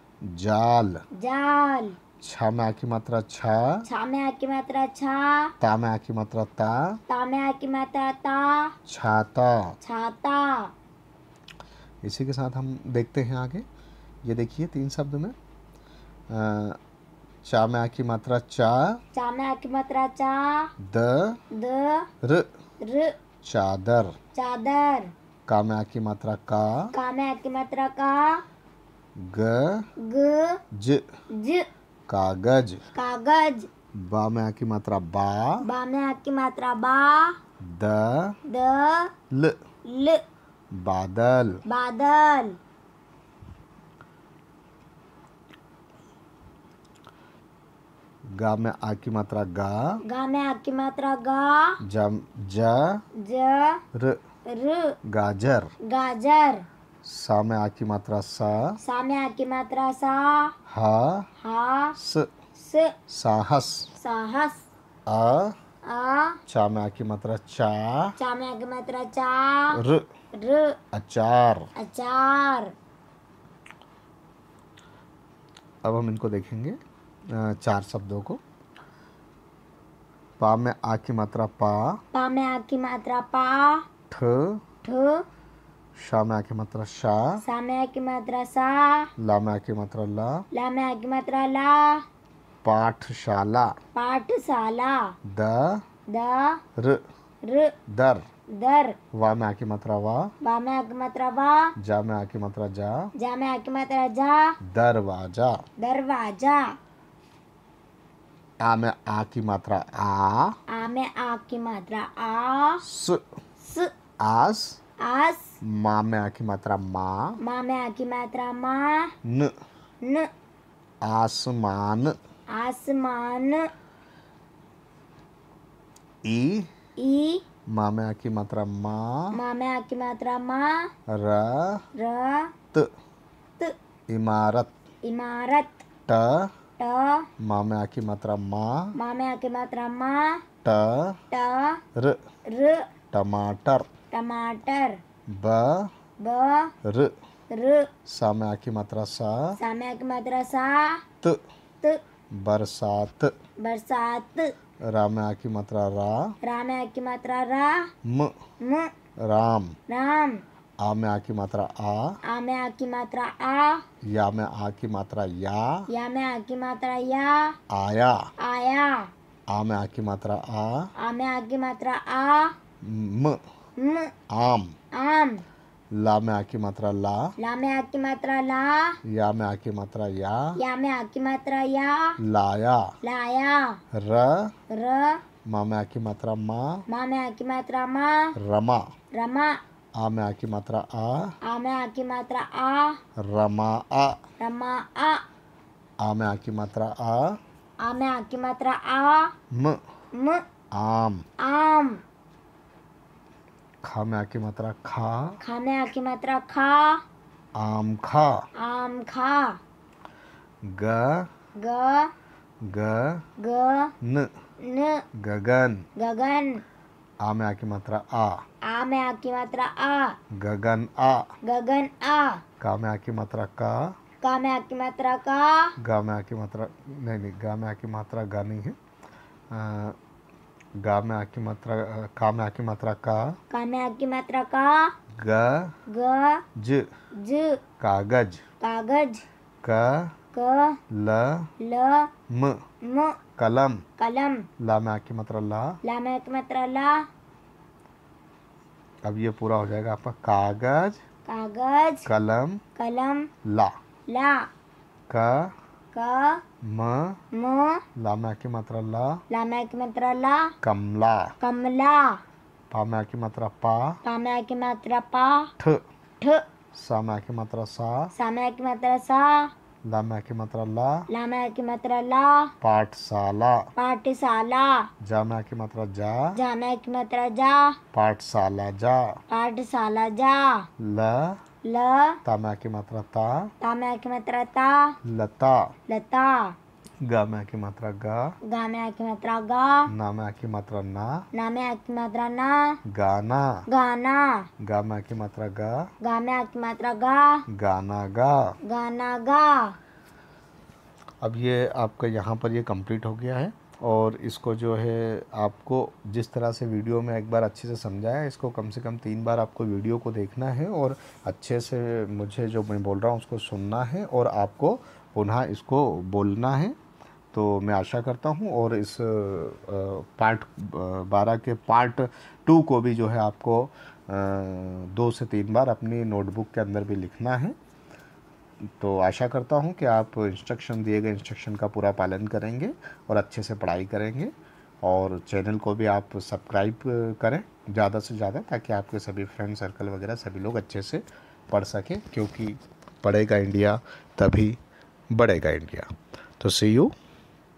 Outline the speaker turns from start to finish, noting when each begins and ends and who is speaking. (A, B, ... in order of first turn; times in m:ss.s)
0:00.2-0:01.0 A
0:01.1-0:02.0 B
0:02.2-0:03.8 A
0:03.8-0:05.5 B
0:05.6-0:07.0 A
0:07.1-0:08.7 B
0:08.8-0:09.8 A
0:09.8-0:10.7 B
0:12.0-0:13.6 A
0:14.2-0:15.3 A
0:16.3-0:16.8 A
0:17.4-0:19.0 A
0:19.1-0:20.7 B
0:20.8-0:21.4 A
0:21.5-0:22.1 B
0:22.2-0:22.5 A
0:22.8-0:23.2 B
0:23.4-0:24.2 A
0:24.3-0:25.1 B
0:25.5-0:26.9 A
0:26.9-0:28.4 B
0:29.2-0:29.9 A
0:30.0-0:30.6 B
0:30.7-0:31.0 A
0:31.3-0:31.7 B
0:32.1-0:32.8 A
0:32.9-0:33.7 B
0:33.9-0:35.7 A
0:35.6-0:37.4 B
0:37.6-0:38.4 A
0:38.5-0:39.1 B
0:39.3-0:39.6 A
0:39.8-0:40.2 B
0:40.7-0:41.6 A
0:41.6-0:42.6 B
0:48.3-0:50.0 A
0:50.0-0:51.8 B
0:51.8-0:53.0 A
0:53.2-0:53.8 B
0:53.9-0:54.2 A
0:54.5-0:55.0 B
0:55.0-0:55.7 A
0:55.8-0:56.6 B
0:57.0-0:58.8 A
0:58.8-1:00.5 B
1:00.7-1:01.3 A
1:01.4-1:02.0 B
1:02.0-1:02.3 A
1:02.6-1:02.9 B
1:03.1-1:03.9 A
1:04.0-1:04.7 B
1:05.1-1:05.6 A
1:05.8-1:06.4 B
1:06.5-1:08.2 A
1:08.2-1:09.8 B
1:09.7-1:10.0 A
1:10.3-1:10.8 B
1:10.9-1:11.7 A
1:11.8-1:12.7 B
1:15.8-1:18.4 A
1:20.4-1:22.0 A
1:22.1-1:23.8 B
1:24.1-1:24.6 A
1:24.8-1:25.2 B
1:26.0-1:27.4 A
1:27.4-1:29.1 B
1:29.2-1:30.4 A
1:30.5-1:32.0 B
1:32.6-1:33.7 A
1:33.9-1:35.1 B
1:35.2-1:35.8 A
1:36.1-1:36.6 B
1:36.8-1:37.0 A
1:37.4-1:37.7 B
1:37.9-1:38.2 A
1:38.5-1:39.0 B
1:39.1-1:40.3 A
1:40.4-1:41.7 B
1:41.8-1:43.1 A
1:43.2-1:44.5 B
1:44.6-1:45.6 A
1:45.8-1:46.8 B
1:48.6-1:50.6 A
1:50.7-1:52.8 B
1:52.8-1:53.2 A
1:53.6-1:53.9 B
1:54.2-1:54.8 A
1:55.0-1:55.5 B
1:55.6-1:57.4 A
1:57.4-1:59.1 B
1:59.2-1:59.5 A
2:00.0-2:00.3 B
2:01.0-2:02.2 A
2:02.5-2:03.7 B
2:06.2-2:06.7 A
2:07.0-2:07.4 B
2:07.7-2:09.4 A
2:09.3-2:10.9 B
2:11.1-2:11.8 A
2:11.9-2:12.5 B
2:14.1-2:14.7 A
2:15.0-2:15.8 B
2:16.1-2:16.5 A
2:16.8-2:17.3 B
2:17.4-2:19.0 A
2:18.9-2:20.4 B
2:20.6-2:21.2 A
2:21.3-2:21.8 B
2:21.9-2:22.2 A
2:22.5-2:22.9 B
2:23.1-2:23.9 A
2:24.1-2:25.0 B
2:25.3-2:25.9 A
2:26.2-2:26.7 B
2:26.8-2:27.1 A
2:27.5-2:27.9 B
2:28.0-2:29.6 A
2:29.6-2:31.0 B
2:32.3-2:33.3 A
2:33.6-2:34.5 B
2:34.8-2:36.3 A
2:36.4-2:37.9 B
2:38.0-2:38.3 A
2:38.6-2:38.9 B
2:39.2-2:39.8 A
2:39.9-2:40.4 B
2:40.8-2:42.2 A
2:42.2-2:43.8 B
2:44.0-2:45.9 A
2:45.9-2:47.6 B
2:47.7-2:48.3 A
2:48.4-2:49.1 B
2:49.5-2:50.9 A
2:51.0-2:52.5 B
2:52.8-2:53.4 A
2:53.8-2:54.1 B
2:54.3-2:54.7 A
2:54.9-2:55.4 B
2:55.9-2:57.3 A
2:57.4-2:59.0 B
2:59.0-3:00.6 A
3:00.6-3:02.2 B
3:02.2-3:02.9 A
3:03.0-3:03.8 B
3:03.9-3:04.5 A
3:04.7-3:05.2 B
3:05.4-3:06.8 A
3:06.9-3:08.3 B
3:08.4-3:08.9 A
3:09.1-3:09.6 B
3:10.0-3:11.4 A
3:11.4-3:13.0 B
3:13.2-3:14.2 A
3:14.4-3:15.2 B
3:16.0-3:17.4 A
3:17.8-3:19.3 B
3:19.5-3:19.8 A
3:20.1-3:20.4 B
3:20.7-3:21.2 A
3:21.4-3:22.0 B
3:23.8-3:25.4 A
3:25.4-3:27.0 B
3:27.5-3:28.5 A
3:28.6-3:29.6 B
3:30.6-3:31.3 A
3:31.6-3:32.1 B
3:32.6-3:33.2 A
3:33.4-3:33.9 B
3:34.0-3:34.3 A
3:34.6-3:35.0 B
3:35.1-3:35.8 A
3:36.0-3:36.6 B
3:37.2-3:38.4 A
3:38.6-3:40.2 B
3:40.3-3:41.3 A
3:41.4-3:42.4 B
3:42.6-3:43.9 A
3:44.2-3:45.7 B
3:45.8-3:48.8 A
3:49.5-3:50.0 A
3:50.8-3:53.4 A
3:53.5-3:54.9 B
3:55.2-3:55.7 A
3:55.9-3:56.4 B
3:56.6-3:56.9 A
3:57.2-3:57.6 B
3:57.8-3:58.4 A
3:58.6-3:59.2 B
3:59.6-4:00.1 A
4:00.3-4:00.8 B
4:00.9-4:01.5 A
4:01.6-4:02.1 B
4:02.3-4:02.6 A
4:02.8-4:03.2 B
4:03.4-4:03.8 A
4:04.0-4:04.5 B
4:04.6-4:05.8 A
4:05.8-4:07.0 B
4:09.0-4:11.0 A
4:11.2-4:12.1 B
4:12.0-4:12.6 A
4:12.7-4:13.3 B
4:13.4-4:13.7 A
4:14.1-4:14.5 B
4:15.1-4:15.5 A
4:15.9-4:16.4 B
4:16.6-4:17.2 A
4:17.3-4:17.8 B
4:17.9-4:19.2 A
4:19.3-4:20.5 B
4:20.6-4:21.3 A
4:21.4-4:22.2 B
4:22.7-4:24.0 A
4:24.0-4:25.5 B
4:26.7-4:28.1 A
4:28.1-4:29.5 B
4:29.8-4:31.1 A
4:31.1-4:32.5 B
4:32.6-4:33.7 A
4:33.8-4:34.9 B
4:35.0-4:36.4 A
4:36.4-4:37.8 B
4:37.9-4:39.2 A
4:39.3-4:40.7 B
4:40.8-4:41.4 A
4:41.6-4:42.2 B
4:42.2-4:43.5 A
4:43.6-4:45.0 B
4:45.0-4:45.7 A
4:45.9-4:46.5 B
4:47.0-4:48.4 A
4:48.4-4:49.9 B
4:49.9-4:51.2 A
4:51.3-4:52.8 B
4:52.8-4:53.7 A
4:53.7-4:54.5 B
4:54.6-4:55.9 A
4:56.0-4:57.4 B
4:57.5-4:58.6 A
4:58.6-4:59.8 B
5:01.2-5:16.8 A
5:17.3-5:27.6 A
5:28.8-5:34.3 A
5:34.8-5:44.6 A
5:45.1-5:46.9 A